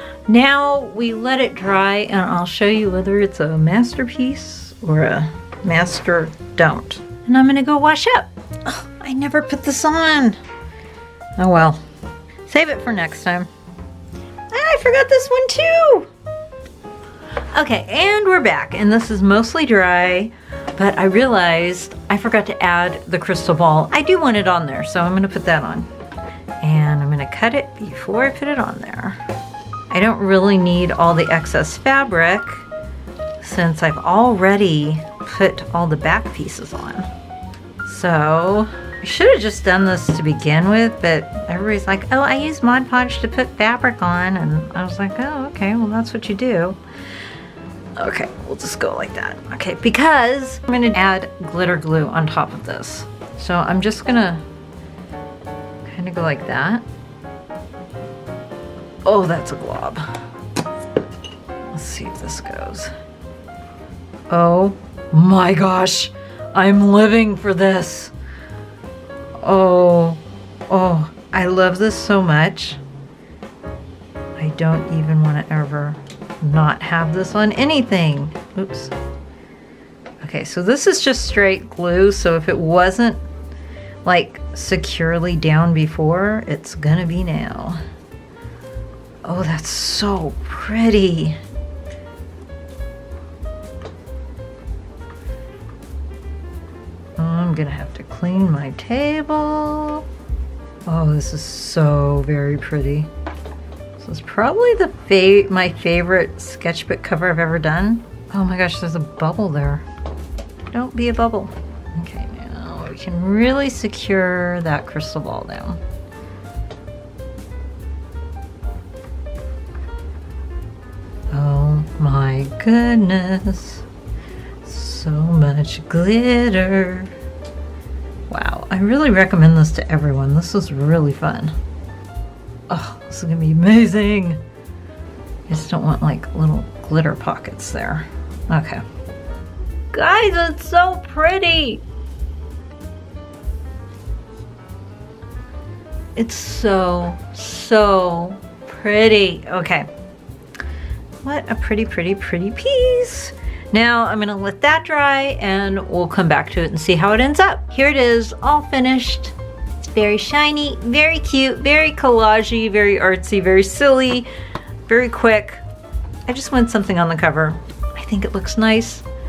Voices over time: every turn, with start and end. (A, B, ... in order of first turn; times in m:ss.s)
0:00.3-0:10.4 A
0:11.4-0:11.8 A
0:12.4-0:13.5 A
0:14.5-0:16.1 A
0:17.5-0:25.9 A
0:26.6-0:29.2 A
0:29.9-0:32.6 A
0:33.4-0:37.1 A
0:37.8-0:46.8 A
0:48.0-0:54.4 A
0:55.8-0:56.8 A
0:59.0-1:00.1 A
1:01.7-1:02.9 A
1:04.3-1:08.1 A
1:09.4-1:12.8 A
1:14.4-1:18.9 A
1:20.2-1:23.2 A
1:24.0-1:27.8 A
1:29.2-1:31.4 A
1:37.2-1:40.0 A
1:40.8-1:43.1 A
1:44.0-1:49.8 A
1:50.7-1:55.8 A
2:01.3-2:03.8 A
2:04.6-2:07.1 A
2:08.3-2:11.5 A
2:12.7-2:14.4 A
2:15.5-2:18.8 A
2:19.9-2:21.8 A
2:26.2-2:29.9 A
2:31.2-2:39.3 A
2:39.8-2:44.3 A
2:44.9-2:45.6 A
2:46.3-2:49.0 A